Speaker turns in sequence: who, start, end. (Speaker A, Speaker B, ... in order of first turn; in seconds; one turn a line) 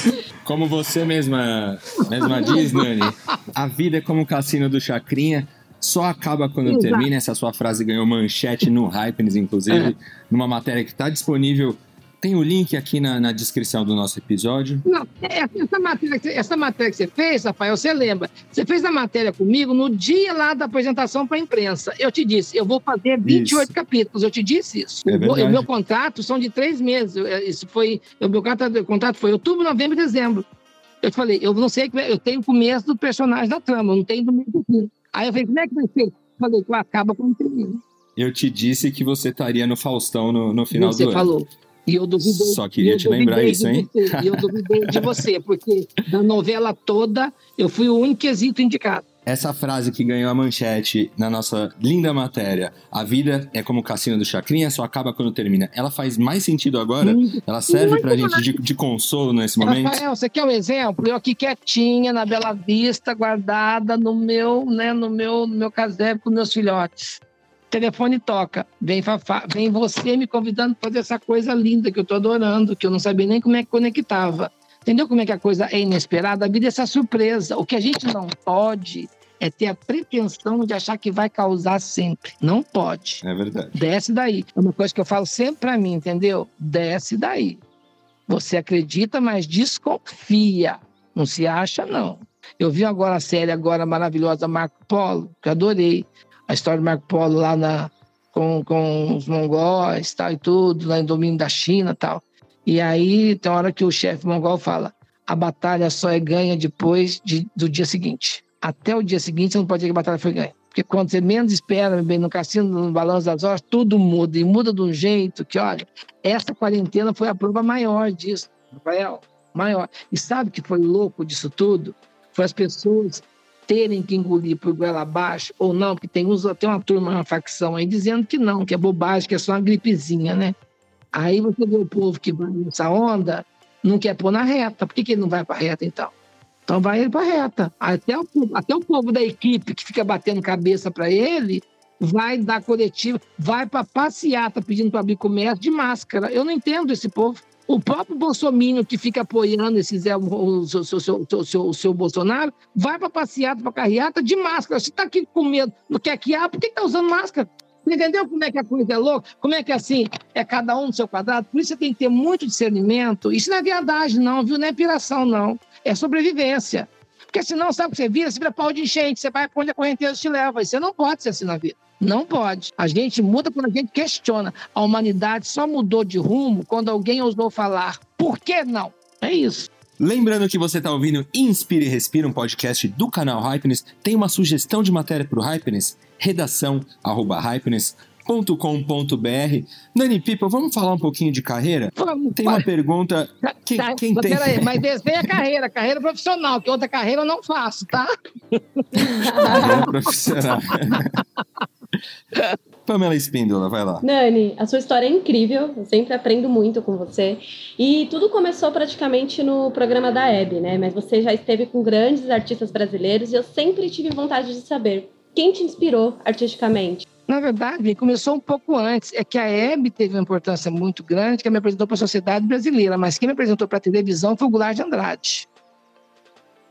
Speaker A: 0.5-14.8
Speaker B: 2.2-3.4
Speaker B: 6.7-7.1
Speaker B: 14.9-30.4
Speaker A: 23.2-23.7
Speaker A: 25.1-25.7
Speaker B: 31.0-37.8
Speaker A: 38.2-41.3
Speaker B: 40.7-49.0
Speaker A: 42.2-45.0
Speaker A: 49.3-60.0
Speaker B: 57.0-58.6
Speaker B: 59.6-67.2
Speaker B: 67.7-83.2
Speaker A: 83.2-83.8
Speaker B: 83.7-87.6
Speaker B: 88.3-130.6
Speaker B: 131.1-136.1
Speaker B: 136.7-179.7
Speaker A: 180.0-195.3
Speaker B: 191.9-192.7
Speaker B: 193.4-199.9
Speaker C: 198.9-199.9
Speaker A: 199.4-201.2
Speaker A: 202.9-204.0
Speaker C: 204.0-217.1
Speaker B: 217.3-225.5